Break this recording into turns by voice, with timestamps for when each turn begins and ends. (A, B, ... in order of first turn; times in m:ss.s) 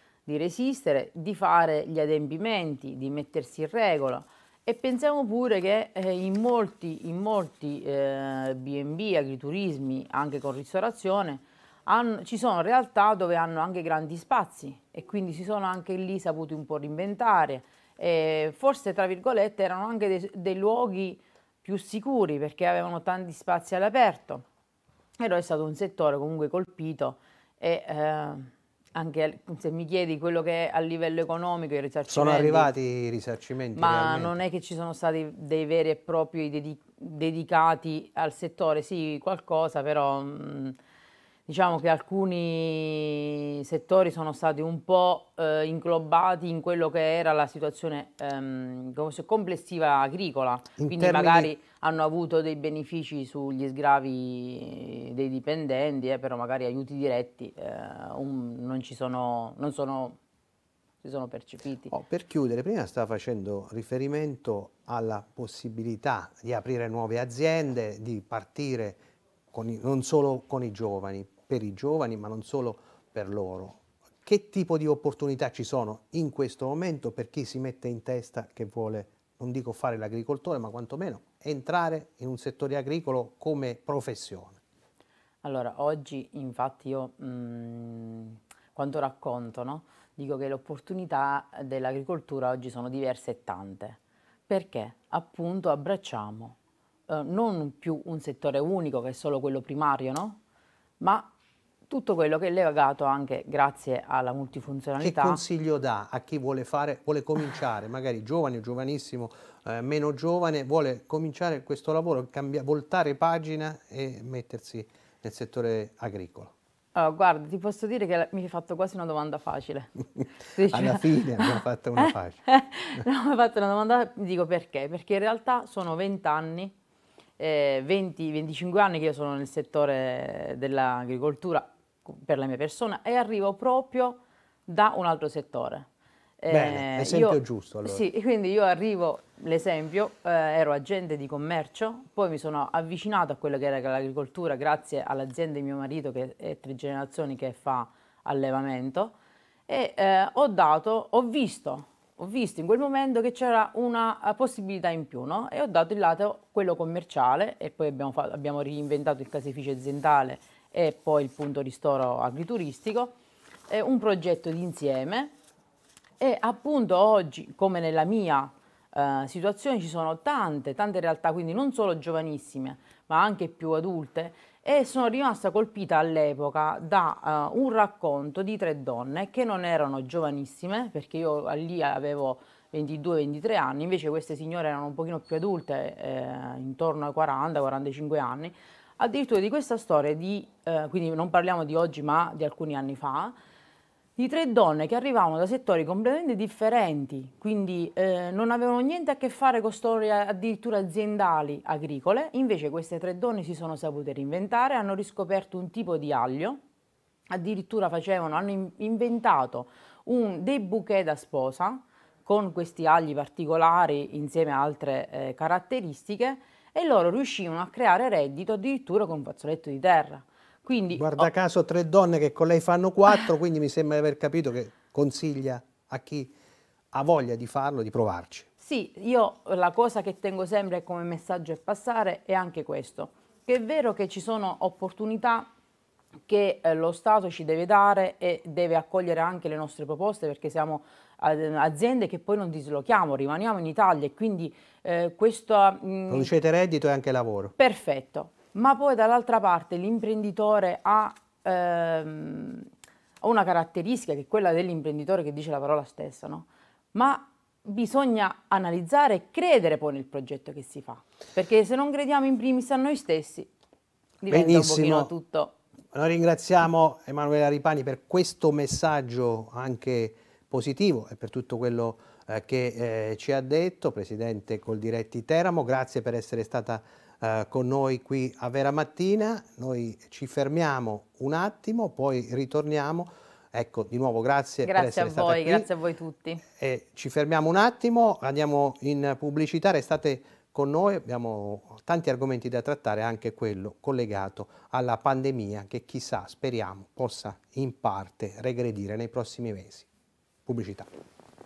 0:00.2-0:24.4 A
0:25.2-0:32.7 A
0:32.1-0:34.4 B
0:33.7-0:40.8 A
0:41.5-1:00.2 A
0:50.8-0:51.5 B
1:01.0-1:01.9 A
1:01.9-1:09.0 B
1:09.5-1:24.6 B
1:25.4-1:36.6 A
1:37.1-1:40.4 A
1:41.0-1:41.3 A
1:41.9-1:45.4 A
1:45.0-1:56.5 B
1:56.9-2:06.7 A
2:00.7-2:02.4 B
2:07.4-2:15.9 A
2:16.4-2:29.1 A
2:16.5-2:18.0 B
2:29.7-2:43.2 A
2:43.7-2:45.3 A
2:46.2-3:13.4 A
3:14.2-3:26.6 A
3:27.3-3:41.3 A
3:40.9-3:46.3 B
3:46.9-3:48.5 B
3:48.6-3:55.5 A
3:56.3-4:06.3 A
4:06.1-4:07.5 B
4:07.6-4:12.7 A
4:13.2-4:23.5 A
4:24.2-4:25.5 A
4:24.3-4:25.1 B
4:25.9-4:45.7 B
4:44.6-4:46.4 A
4:46.5-4:59.9 B
5:00.4-5:00.9 B